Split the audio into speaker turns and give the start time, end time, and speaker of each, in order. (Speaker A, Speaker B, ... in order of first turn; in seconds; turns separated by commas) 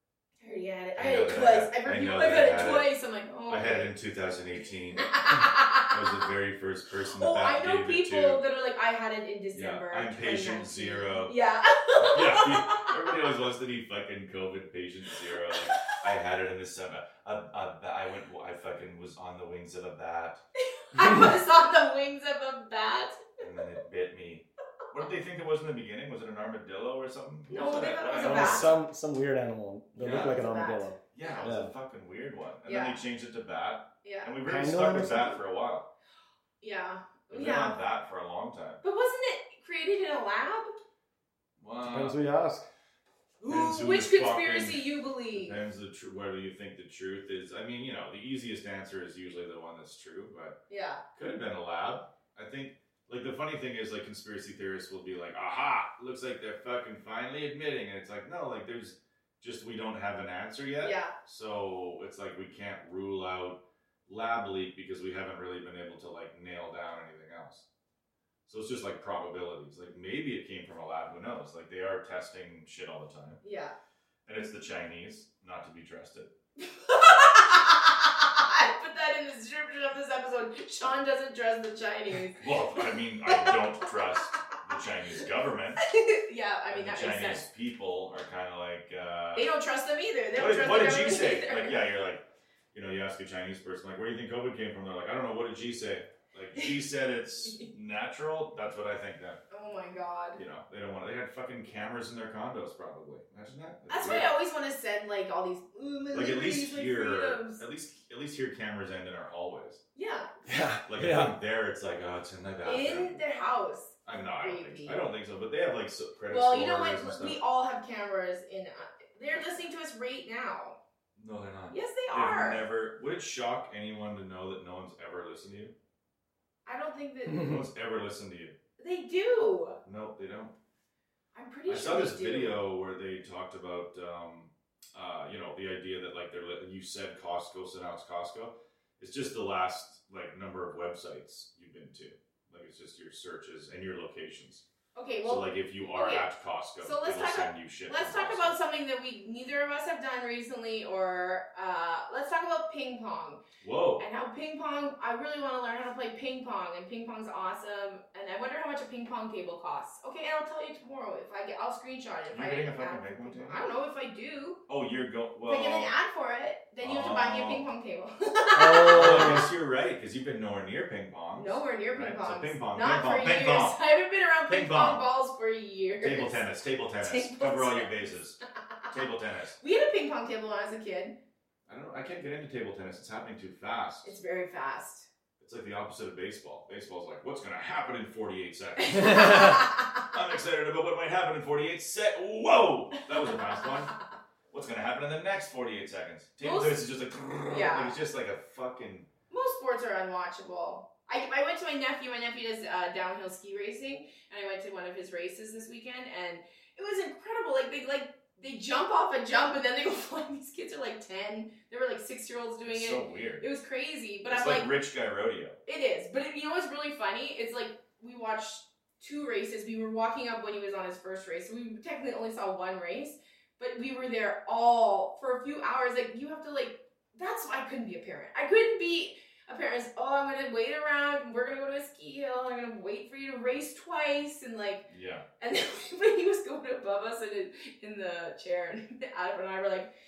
Speaker A: 0.4-3.9, Speaker B: 1.0-2.9, Speaker B: 3.5-5.3, Speaker A: 5.0-6.3, Speaker B: 5.9-8.4, Speaker A: 7.1-13.1, Speaker B: 9.5-11.3, Speaker B: 12.0-20.4, Speaker A: 15.2-16.0, Speaker A: 20.8-23.3, Speaker B: 23.4-28.8, Speaker A: 27.5-28.7, Speaker C: 28.2-31.7, Speaker B: 30.0-30.5, Speaker A: 30.1-31.5, Speaker B: 31.1-35.9, Speaker A: 32.7-33.0, Speaker A: 34.0-34.3, Speaker C: 34.4-35.4, Speaker A: 36.6-37.8, Speaker B: 37.3-38.8, Speaker A: 38.8-40.7, Speaker B: 41.6-42.2, Speaker C: 41.8-42.7, Speaker A: 43.4-45.6, Speaker B: 43.5-50.6, Speaker A: 50.7-51.0, Speaker B: 51.1-67.7, Speaker A: 60.8-61.1, Speaker B: 68.5-73.4, Speaker A: 73.4-73.7, Speaker B: 74.3-76.3, Speaker A: 76.6-84.6, Speaker B: 82.3-85.8, Speaker A: 85.8-87.4, Speaker B: 86.7-89.5, Speaker A: 89.3-91.8, Speaker B: 90.3-99.4, Speaker A: 99.5-100.4, Speaker B: 100.4-104.4, Speaker A: 103.9-107.6, Speaker B: 106.1-109.8, Speaker A: 110.0-110.5, Speaker C: 110.5-111.3, Speaker B: 110.9-113.2, Speaker A: 112.6-115.0, Speaker B: 114.0-117.4, Speaker A: 116.3-120.8, Speaker B: 121.2-125.7, Speaker A: 121.7-122.6, Speaker A: 126.7-127.6, Speaker B: 127.3-128.6, Speaker A: 128.8-129.8, Speaker B: 129.8-130.5, Speaker A: 131.3-132.6, Speaker B: 131.7-144.7, Speaker A: 144.9-146.3, Speaker B: 145.2-148.5, Speaker A: 146.8-153.4, Speaker B: 153.6-154.0, Speaker A: 154.0-164.6, Speaker B: 162.3-163.6, Speaker B: 164.7-165.9, Speaker A: 165.5-169.4, Speaker B: 166.8-167.7, Speaker C: 168.6-169.5, Speaker B: 168.9-173.8, Speaker A: 171.3-176.4, Speaker B: 174.5-175.0, Speaker B: 176.0-178.4, Speaker A: 177.0-178.2, Speaker B: 178.9-179.6, Speaker A: 179.6-181.2, Speaker B: 181.7-184.2, Speaker A: 184.0-185.1, Speaker B: 185.4-193.9, Speaker A: 188.8-190.1, Speaker A: 193.2-193.7, Speaker B: 194.5-199.1, Speaker A: 196.4-196.9, Speaker A: 197.5-198.0, Speaker A: 199.3-214.7, Speaker B: 212.7-213.4, Speaker B: 214.2-215.6, Speaker A: 215.7-234.9, Speaker B: 234.9-235.2, Speaker A: 235.4-239.9